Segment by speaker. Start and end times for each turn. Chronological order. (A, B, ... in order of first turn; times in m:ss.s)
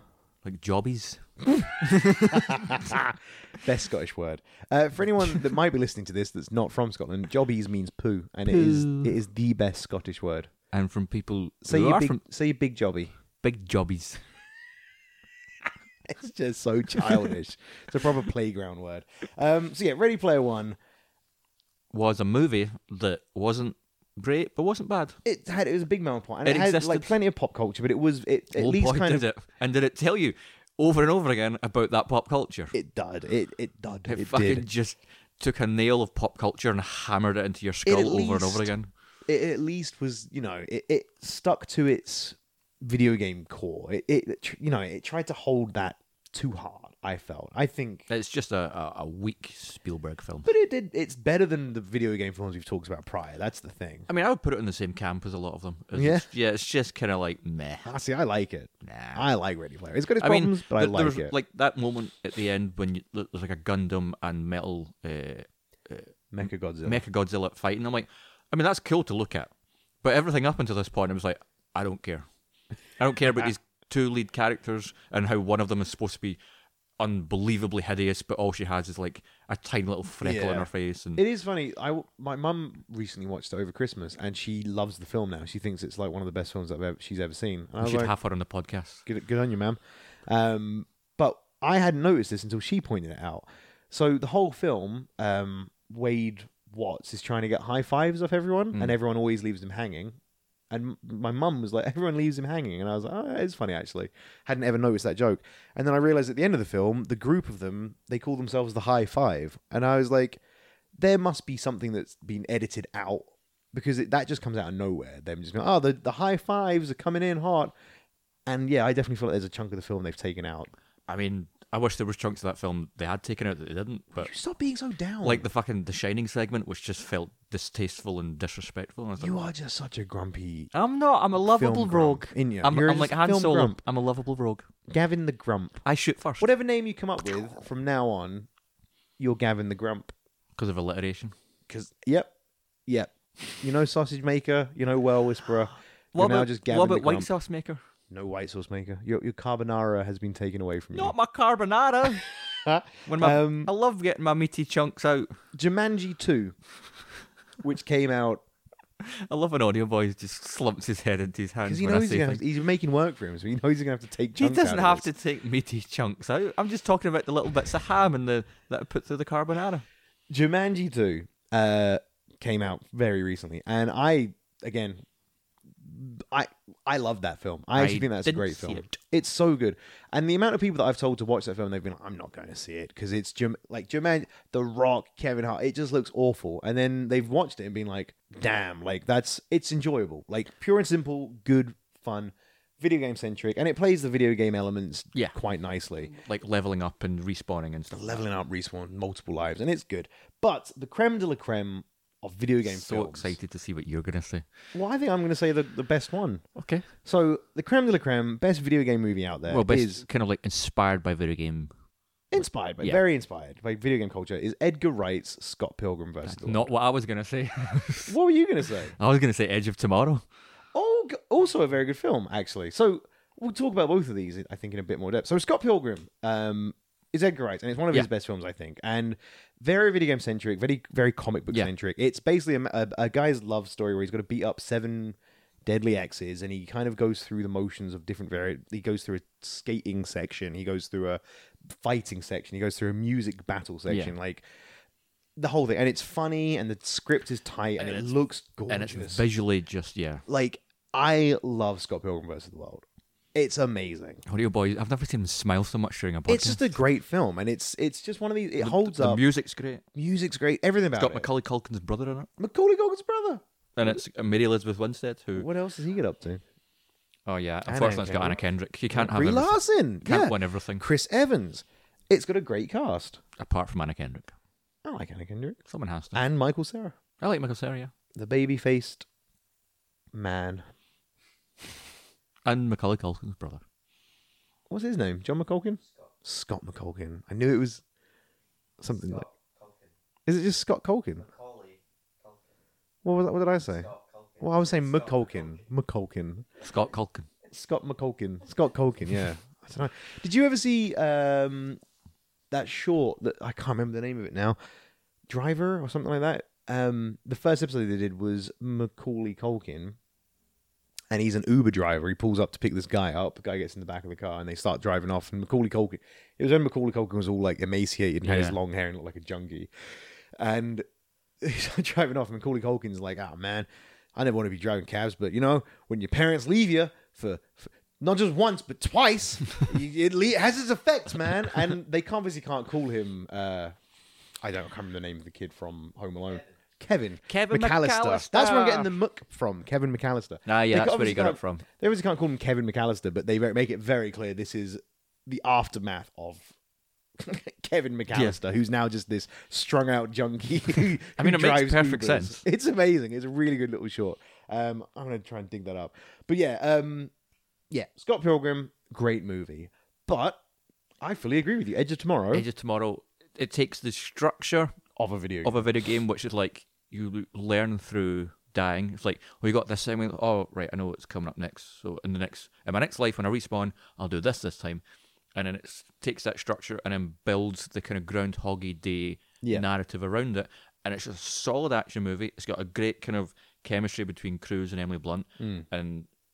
0:00.4-0:01.3 A
0:01.8-0:02.9 A
0:02.3-0:10.5 B
0:08.5-0:09.1 A
0:10.7-0:12.2 A
0:11.6-0:13.2 B
0:13.4-0:14.2 A
0:16.0-0:20.8 B
0:21.9-0:25.2 A
0:25.2-0:29.2 B
0:26.4-0:27.1 A
0:28.6-0:32.8 A
0:32.7-0:34.7 B
0:34.1-0:38.9 A
0:37.9-0:38.7 B
0:39.3-0:48.1 B
0:48.1-0:50.5 A
0:50.5-0:54.1 B
0:54.1-0:57.9 A
0:56.0-0:56.3 B
0:57.8-1:01.3 B
0:58.8-0:59.3 A
1:00.2-1:09.5 A
1:06.3-1:07.0 B
1:10.0-1:12.3 A
1:13.0-1:16.4 A
1:17.0-1:21.2 A
1:20.2-1:28.1 B
1:27.8-1:29.0 A
1:29.1-1:40.2 B
1:40.7-1:50.4 B
1:51.0-1:57.7 B
1:58.5-2:00.7 B
2:01.1-2:04.3 A
2:04.2-2:05.5 B
2:05.2-2:09.5 A
2:09.2-2:10.7 B
2:10.7-2:14.7 A
2:11.4-2:13.8 B
2:14.9-2:15.8 B
2:15.8-2:16.5 A
2:16.4-2:18.5 B
2:19.2-2:20.1 B
2:20.6-2:21.4 A
2:21.7-2:22.3 B
2:22.9-2:27.3 B
2:26.1-2:27.8 A
2:28.1-2:31.2 B
2:30.9-2:32.3 A
2:32.6-2:33.7 B
2:33.1-2:35.3 A
2:35.5-2:36.6 B
2:37.6-2:38.4 B
2:39.0-2:42.4 A
2:41.7-2:45.1 B
2:44.4-2:49.8 A
2:50.3-2:55.0 B
2:55.8-3:16.1 B
2:57.8-2:59.0 A
3:16.1-3:18.3 A
3:17.9-3:23.4 B
3:22.6-3:24.4 A
3:24.7-3:26.4 B
3:26.6-3:26.9 A
3:27.0-3:30.0 B
3:29.5-3:31.7 A
3:32.3-3:36.7 B
3:36.2-3:38.2 A
3:38.1-3:38.9 B
3:39.0-3:40.2 A
3:40.7-4:04.4 B
4:03.9-4:04.1 A
4:05.4-4:09.2 B
4:07.8-4:08.1 A
4:08.7-4:10.2 A
4:10.3-4:14.2 B
4:14.3-4:16.8 A
4:16.3-4:19.2 B
4:18.6-4:19.8 A
4:20.0-4:21.3 B
4:21.0-4:22.3 A
4:22.4-4:24.0 B
4:23.8-4:25.5 A
4:25.3-4:26.4 B
4:27.3-4:30.8 A
4:27.7-4:28.4 B
4:28.9-4:33.2 B
4:33.4-4:34.3 A
4:34.8-4:35.6 B
4:35.7-4:36.2 A
4:36.1-4:37.0 B
4:37.2-4:37.9 A
4:38.2-4:39.1 B
4:40.1-4:40.6 B
4:42.4-4:43.6 A
4:44.7-4:47.8 B
4:48.8-4:49.3 B
4:50.3-4:51.3 B
4:53.0-4:56.5 B
4:56.6-4:57.3 A
4:57.5-5:01.8 B
5:02.5-5:04.6 B
5:05.3-5:10.0 B
5:11.1-5:20.8 B
5:18.2-5:18.6 A
5:21.4-5:33.7 B
5:34.4-5:46.5 B
5:37.3-5:39.0 A
5:40.5-5:41.6 A
5:47.2-5:57.1 B
5:48.1-5:48.4 A
5:51.2-5:52.4 A
5:57.7-6:00.4 B
6:01.0-6:02.5 B
6:02.3-6:04.8 A
6:05.0-6:05.7 B
6:05.4-6:14.8 A
6:15.4-6:26.1 A
6:25.4-6:25.7 B